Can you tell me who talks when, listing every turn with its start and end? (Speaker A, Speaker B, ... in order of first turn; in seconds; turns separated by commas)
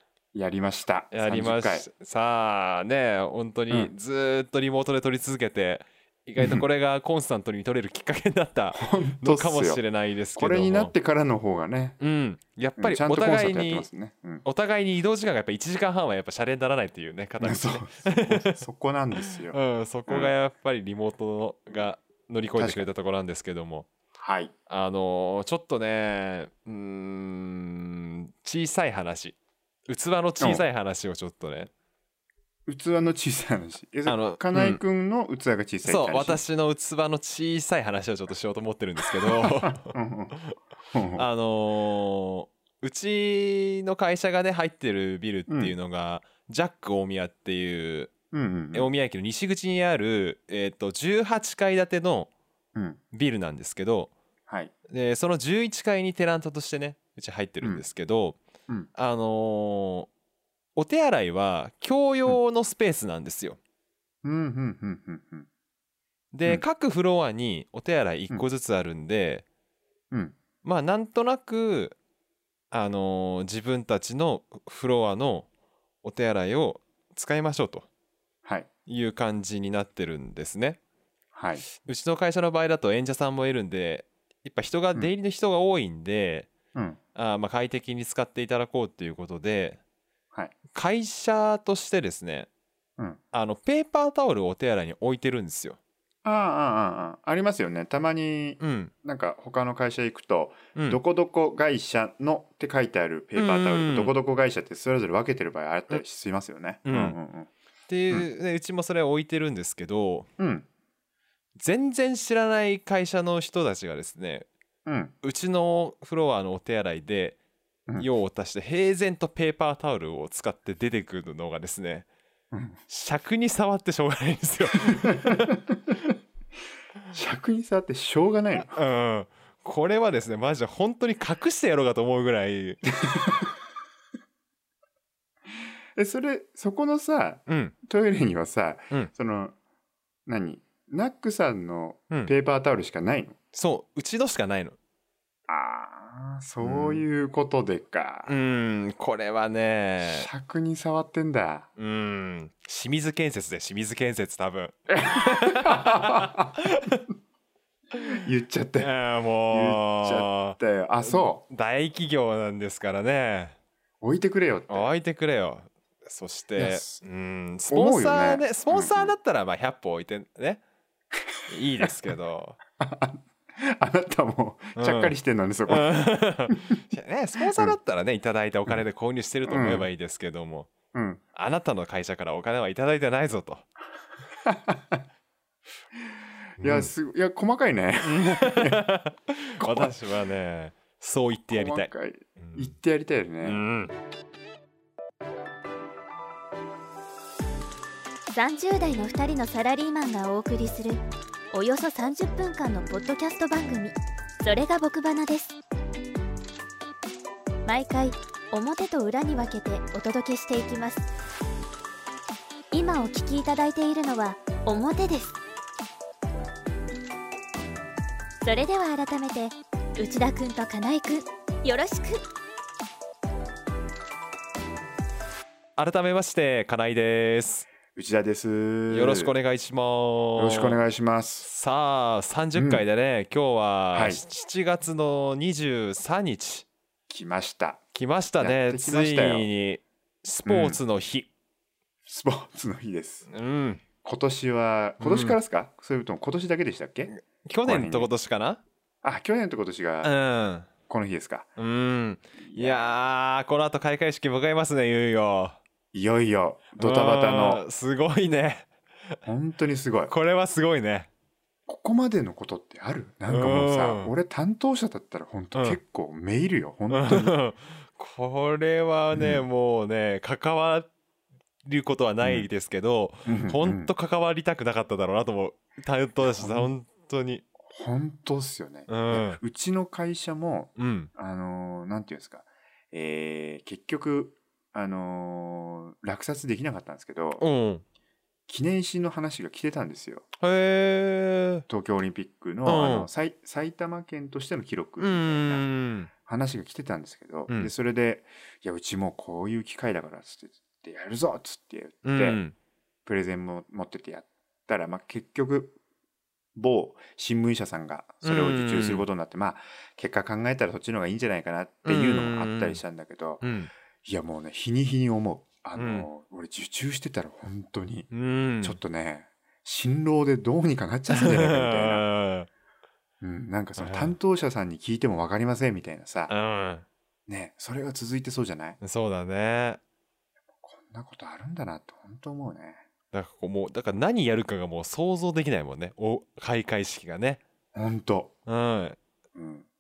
Speaker A: 0.3-1.9, Speaker B: 1.1-10.9, Speaker A: 6.4-6.7, Speaker A: 8.7-9.8, Speaker A: 10.3-12.0, Speaker B: 12.0-13.9, Speaker A: 12.8-14.4, Speaker B: 14.4-18.6, Speaker A: 17.4-20.3, Speaker B: 19.2-23.9, Speaker A: 22.6-22.9, Speaker A: 24.2-24.5, Speaker B: 24.7-29.4, Speaker B: 29.9-31.7, Speaker A: 32.7-36.4, Speaker B: 34.1-34.8, Speaker B: 35.8-39.9, Speaker A: 39.3-40.4, Speaker A: 40.9-41.3, Speaker B: 41.1-48.1, Speaker A: 45.5-45.8, Speaker A: 48.3-48.9, Speaker B: 48.7-52.3, Speaker A: 52.8-53.0, Speaker B: 53.1-54.1, Speaker B: 54.9-58.4, Speaker B: 59.0-60.1, Speaker B: 60.8-63.6, Speaker A: 64.2-65.5, Speaker B: 66.3-69.5, Speaker A: 70.1-70.4, Speaker B: 70.6-72.0, Speaker B: 72.7-75.5, Speaker B: 76.0-77.9, Speaker B: 78.9-80.8, Speaker A: 81.3-81.7, Speaker B: 81.8-86.5, Speaker B: 87.2-89.8, Speaker B: 90.7-92.5, Speaker B: 93.3-95.8, Speaker A: 96.2-107.5, Speaker B: 98.6-98.9, Speaker B: 103.3-104.1, Speaker B: 106.9-107.2, Speaker B: 107.9-110.3, Speaker A: 110.4-110.7, Speaker B: 111.6-114.5, Speaker A: 114.9-115.1, Speaker B: 115.2-117.4, Speaker B: 118.0-122.1, Speaker A: 122.5-122.8, Speaker B: 122.9-125.6, Speaker A: 125.1-126.1, Speaker A: 127.1-128.8, Speaker B: 128.6-132.9, Speaker A: 133.0-133.5, Speaker A: 136.0-139.6, Speaker B: 137.5-137.7, Speaker A: 140.3-143.4, Speaker B: 143.5-144.8, Speaker A: 145.5-148.3, Speaker B: 146.6-147.1, Speaker B: 148.3-150.3, Speaker A: 150.1-151.7, Speaker B: 151.8-157.0, Speaker A: 154.9-156.6, Speaker B: 157.9-158.2, Speaker A: 158.2-158.9, Speaker B: 158.8-163.5, Speaker A: 159.5-161.4, Speaker A: 164.0-164.9, Speaker B: 164.7-170.6, Speaker A: 166.6-167.0, Speaker A: 167.7-169.2, Speaker B: 171.5-172.6, Speaker A: 172.8-176.7, Speaker B: 174.8-175.2, Speaker B: 175.7-180.7, Speaker A: 177.4-177.8, Speaker A: 179.5-179.9, Speaker A: 180.9-181.2, Speaker B: 181.3-183.7, Speaker A: 184.4-185.0, Speaker B: 186.6-186.9, Speaker A: 186.6-188.8, Speaker B: 188.0-192.7, Speaker A: 189.6-190.0, Speaker A: 191.5-193.6, Speaker B: 193.4-193.9, Speaker C: 198.3-205.6, Speaker C: 207.7-211.1, Speaker C: 212.7-215.4, Speaker C: 218.4-222.2, Speaker B: 225.8-227.7, Speaker A: 227.9-229.3, Speaker B: 228.9-230.8, Speaker A: 230.4-231.5, Speaker B: 231.4-236.7, Speaker A: 232.6-232.8, Speaker A: 233.9-234.2, Speaker A: 237.1-237.8, Speaker B: 237.9-241.3, Speaker A: 238.4-239.5, Speaker A: 240.4-240.8, Speaker A: 242.1-243.3, Speaker B: 243.3-243.8, Speaker A: 244.0-247.1, Speaker B: 245.0-245.4, Speaker B: 247.1-248.6, Speaker A: 247.7-248.1, Speaker A: 249.0-250.1, Speaker B: 250.0-250.7, Speaker A: 250.9-251.5, Speaker B: 251.6-255.6, Speaker A: 252.4-252.9, Speaker A: 255.9-257.6, Speaker B: 256.8-258.7, Speaker A: 259.2-260.1, Speaker B: 260.1-261.1, Speaker A: 261.7-267.4, Speaker B: 263.3-264.1, Speaker B: 265.5-265.8, Speaker B: 266.9-270.9, Speaker A: 269.1-269.4, Speaker B: 271.6-277.4, Speaker A: 272.2-272.5, Speaker A: 273.2-273.9, Speaker A: 276.2-276.7, Speaker A: 277.6-287.4, Speaker B: 278.9-279.4, Speaker B: 280.8-281.1, Speaker B: 287.4-287.8, Speaker A: 288.5-290.3, Speaker B: 290.4-291.7, Speaker A: 291.7-295.6, Speaker B: 292.7-293.1, Speaker B: 295.0-296.1, Speaker A: 296.2-302.4, Speaker B: 302.1-302.5, Speaker A: 303.1-305.8, Speaker A: 306.6-313.4, Speaker B: 308.2-309.1, Speaker B: 311.9-312.8, Speaker B: 313.4-313.7, Speaker A: 314.0-318.1, Speaker B: 315.8-316.1, Speaker B: 318.1-318.8, Speaker A: 318.6-322.1, Speaker B: 321.1-322.5, Speaker A: 323.2-326.3, Speaker B: 323.8-324.2, Speaker B: 326.3-326.9, Speaker A: 327.3-328.8, Speaker B: 328.8-329.8, Speaker A: 330.6-332.8, Speaker B: 333.1-337.4, Speaker A: 337.7-338.3, Speaker B: 338.5-339.0, Speaker A: 339.4-339.6